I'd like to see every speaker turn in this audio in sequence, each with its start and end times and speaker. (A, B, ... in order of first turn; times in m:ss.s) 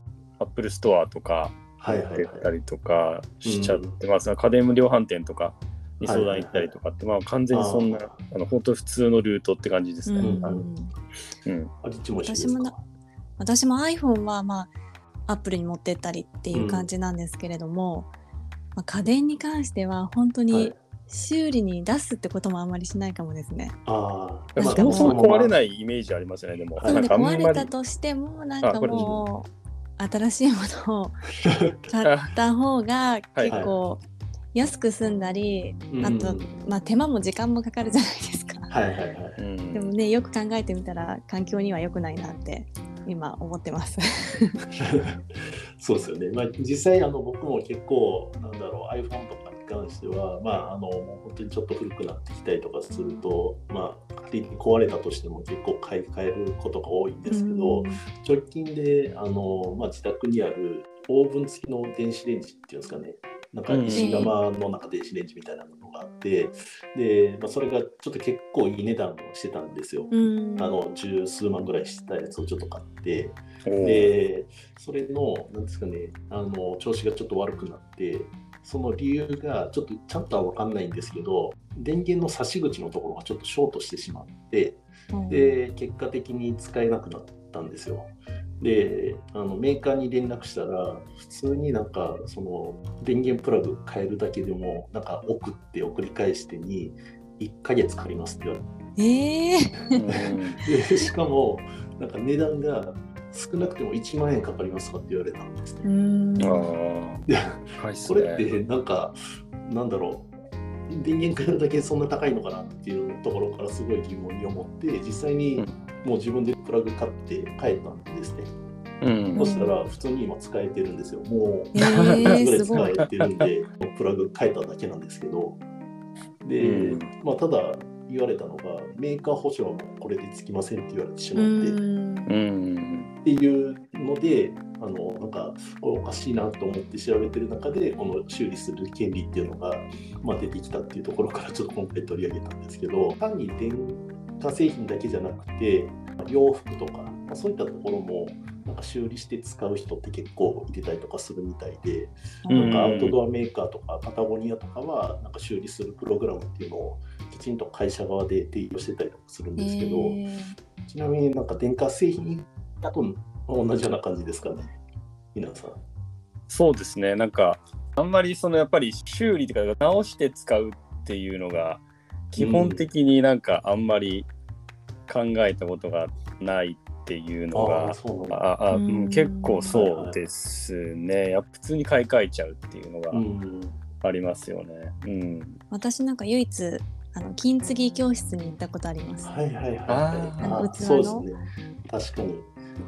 0:00.4-0:10.6 A
0:01.8-0:02.5 B
0:03.4-0:04.0 B
0:06.0-0:06.7 B
0:07.5-0:08.2 B
0:10.1-0:10.9 C
0:10.2-0:10.6 B
0:11.5-0:11.7 A
0:11.8-0:12.8 B
0:12.2-0:12.7 C
0:13.4-0:14.7 C
0:15.3-0:18.1 C
0:16.5-0:16.9 B
0:18.8-0:23.8 C
0:20.5-0:20.8 B
0:23.8-0:25.6 B
0:24.6-0:27.7 A
0:24.6-0:25.2 C
0:26.8-0:27.3 B
0:26.8-0:31.2 C
0:28.6-0:29.2 A
0:31.4-0:31.8 B
0:31.9-0:34.0 C
0:32.0-0:32.4 A
0:33.3-0:33.6 A
0:33.5-0:33.8 B
0:34.5-0:38.7 C
0:35.9-0:36.6 B
0:38.7-0:39.4 B
0:39.4-0:39.9 A
0:39.7-0:44.6 C
0:44.8-1:38.7 B
0:57.3-0:58.0 C
1:03.7-1:04.3 A
1:03.9-1:04.3 C
1:10.1-1:10.8 C
1:13.6-1:14.1 A
1:25.1-1:25.5 C
1:39.0-1:40.1 C
1:40.0-1:40.6 A
1:40.2-1:45.8 B
1:45.8-1:46.7 C
1:46.4-1:48.5 A
1:47.3-1:50.3 B
1:50.9-1:58.5 B
1:59.0-1:59.5 A
1:59.3-1:59.8 C
1:59.3-2:05.6 B
2:01.7-2:02.9 C
2:01.8-2:03.5 A
2:06.4-2:11.8 B
2:06.6-2:07.1 A
2:11.4-2:12.3 C
2:12.3-2:13.1 A
2:13.2-2:40.2 B
2:32.4-2:32.8 C
2:32.5-2:33.2 A
2:39.6-2:40.5 C
2:40.9-2:44.8 B
2:45.3-2:45.8 B
2:46.5-2:54.3 A
2:52.4-2:52.9 B
2:55.1-3:03.2 A
2:57.5-2:58.4 B
2:58.7-2:59.8 C
2:59.7-3:00.2 B
3:03.1-3:03.8 B
3:04.0-3:05.6 A
3:05.7-3:09.3 C
3:09.2-3:12.5 B
3:09.9-3:10.6 A
3:10.4-3:11.3 C